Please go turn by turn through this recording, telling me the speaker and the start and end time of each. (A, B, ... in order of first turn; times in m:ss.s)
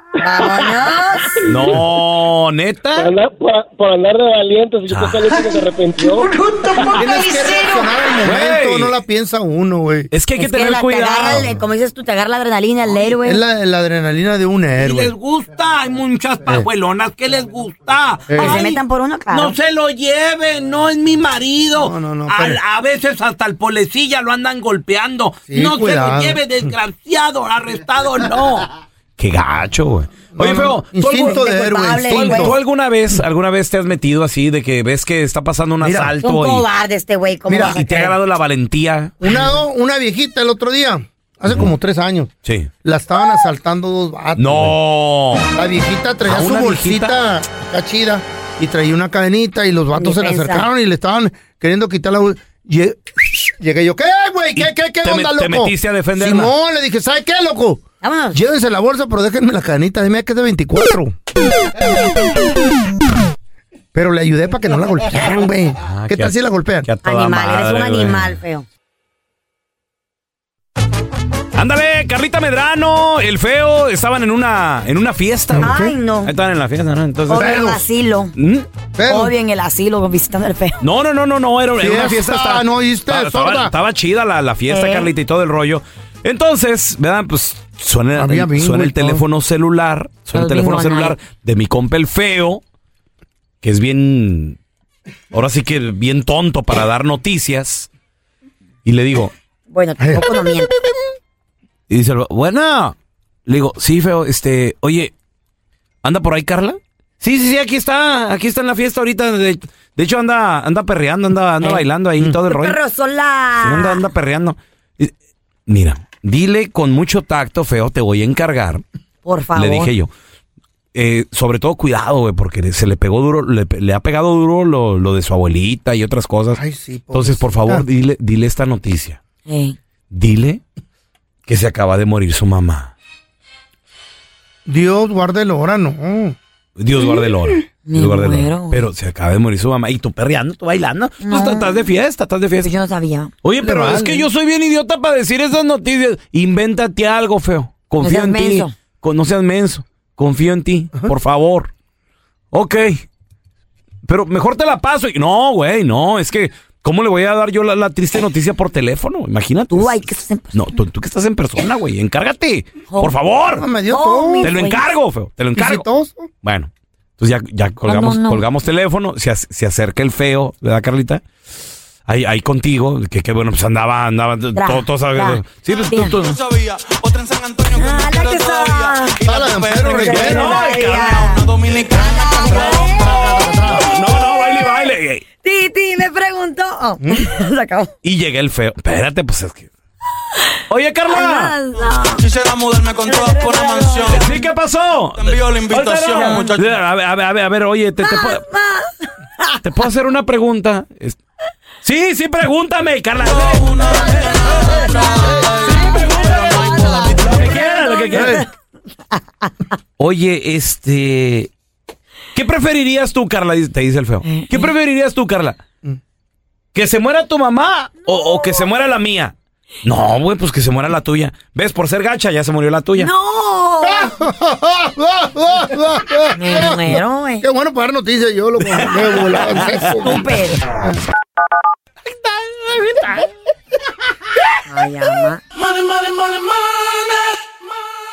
0:00.2-0:01.4 A
0:01.5-0:03.1 B
0:03.0-0:06.3 C
0:04.9-0:05.2 B
0:06.4-0:07.9 A
0:07.0-0:10.1 D
0:08.2-0:09.0 B
0:10.1-0:11.5 B
0:10.4-0:13.4 A
0:13.2-0:15.1 D
0:14.8-0:31.4 B
0:18.3-0:18.6 D
0:18.4-0:19.6 A
0:21.8-0:22.6 D
0:25.5-0:26.7 D
0:30.4-0:32.6 D
0:31.2-0:32.6 A
0:32.1-0:36.7 B
0:35.8-0:36.1 D
0:36.2-0:38.2 A
0:37.5-0:37.8 D
0:37.7-0:39.3 B
0:39.2-0:42.3 D
0:42.4-0:42.7 B
0:42.8-0:44.8 D
0:44.4-0:45.5 B
0:45.5-1:01.2 D
0:46.3-0:47.2 B
0:50.0-0:50.7 A
0:54.6-0:56.5 B
0:58.0-0:58.4 A
1:03.9-1:06.9 D
1:05.8-1:08.4 B
1:07.0-1:08.7 A
1:11.6-1:17.8 B
1:15.5-1:16.0 D
1:15.6-1:16.3 A
1:17.3-1:18.3 A
1:17.3-1:17.8 D
1:18.4-1:18.7 B
1:19.0-1:19.4 D
1:19.0-1:20.8 A
1:20.8-1:32.6 B
1:21.8-1:23.8 D
1:24.7-1:25.1 A
1:28.2-1:29.2 D
1:30.3-1:31.2 A
1:33.6-1:34.6 B
1:35.3-1:37.9 B
1:38.8-1:39.3 B
1:39.7-1:40.8 A
1:41.9-1:43.0 B
1:43.5-1:45.1 B
1:46.0-1:52.8 B
1:52.4-1:54.0 A
1:53.6-1:55.1 B
1:55.7-1:58.8 B
1:59.2-1:59.9 A
1:59.6-2:00.1 B
2:00.9-2:06.6 B
2:06.5-2:07.8 D
2:07.1-2:09.2 B
2:09.5-2:09.8 A
2:10.1-2:10.6 B
2:11.5-2:12.9 B
2:14.7-2:16.4 D
2:16.8-2:22.7 B
2:17.8-2:18.8 A
2:21.2-2:21.8 A
2:22.6-2:23.3 A
2:23.4-2:31.7 B
2:23.6-2:24.3 D
2:28.0-2:28.7 A
2:32.5-2:33.0 B
2:34.1-2:43.7 B
2:39.7-2:40.6 A
2:42.9-2:43.2 A
2:43.5-2:44.6 D
2:43.9-2:44.8 A
2:44.4-2:45.9 B
2:45.6-2:46.3 D
2:46.4-2:51.2 B
2:47.8-2:48.4 A
2:52.1-2:56.4 B
2:54.6-2:56.2 A
2:56.2-3:02.8 E
2:57.7-2:59.2 A
2:59.2-3:00.6 D
2:59.9-3:03.2 A
3:00.0-3:01.4 B
3:02.5-3:03.9 D
3:03.7-3:05.2 B
3:05.4-3:07.9 A
3:07.0-3:07.3 D
3:08.0-3:09.7 B
3:10.7-3:11.5 B
3:11.1-3:12.3 A
3:12.1-3:14.3 E
3:13.0-3:14.2 A
3:14.1-3:18.5 B
3:15.2-3:16.8 E
3:16.2-3:16.4 A
3:18.0-3:19.5 A
3:19.6-3:21.2 B
3:21.8-3:24.0 B
3:23.4-3:27.4 E
3:23.9-3:28.5 A
3:25.8-3:26.1 B
3:27.1-3:28.4 B
3:28.1-3:28.4 D
3:30.0-3:31.5 B
3:32.3-3:35.6 B
3:34.2-3:34.7 A
3:36.7-3:43.1 B
3:43.0-3:44.1 A
3:43.8-3:51.0 D
3:46.4-3:47.5 A
3:49.6-3:49.9 B
3:50.0-3:50.6 A
3:54.7-3:55.4 A